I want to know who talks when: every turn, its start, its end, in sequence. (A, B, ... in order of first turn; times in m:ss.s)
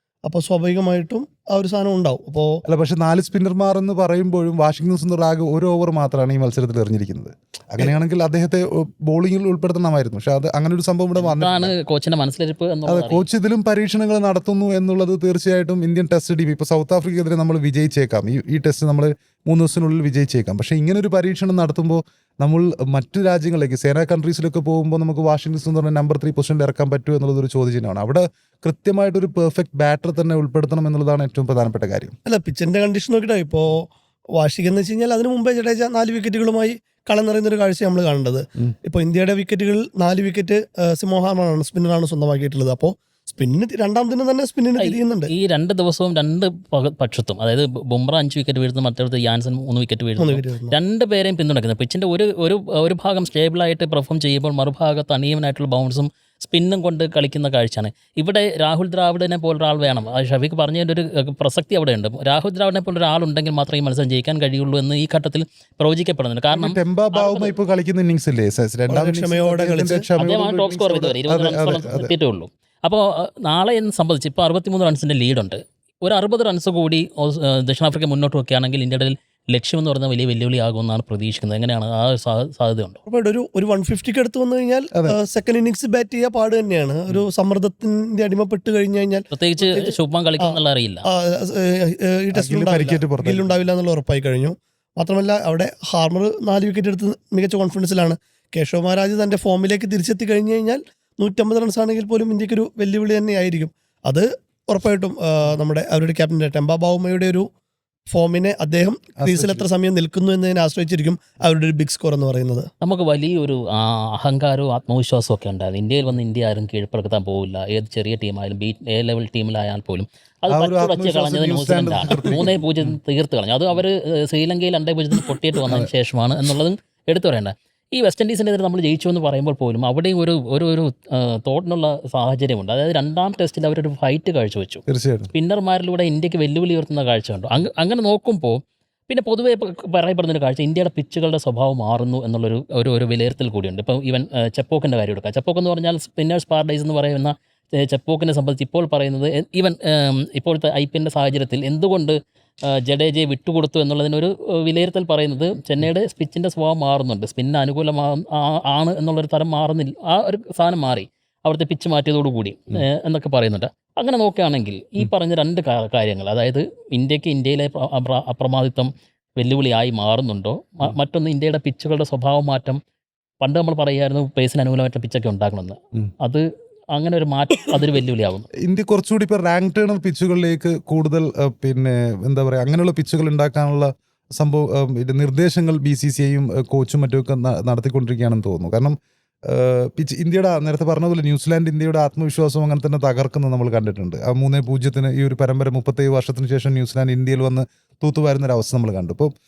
0:00.2-0:02.6 A
0:02.6-0:11.7 B
0:11.2-0:13.2 C
0:12.9-0:32.1 B
0:32.2-0:33.8 A
0:34.4-0:45.3 A
0:44.8-1:07.5 C
0:50.2-0:50.8 A
1:06.5-1:12.1 B
1:08.9-1:10.1 A
1:10.2-1:23.0 C
1:23.1-1:30.6 A
1:29.3-1:31.1 C
1:31.1-1:47.4 A
1:32.3-1:33.5 B
1:48.1-1:52.7 A
1:49.2-1:49.6 B
1:52.8-2:32.2 C
2:00.5-2:02.6 B
2:14.9-2:15.3 B
2:32.7-2:52.8 C
2:53.4-2:58.5 C
2:58.6-3:08.9 B
3:09.5-3:19.3 B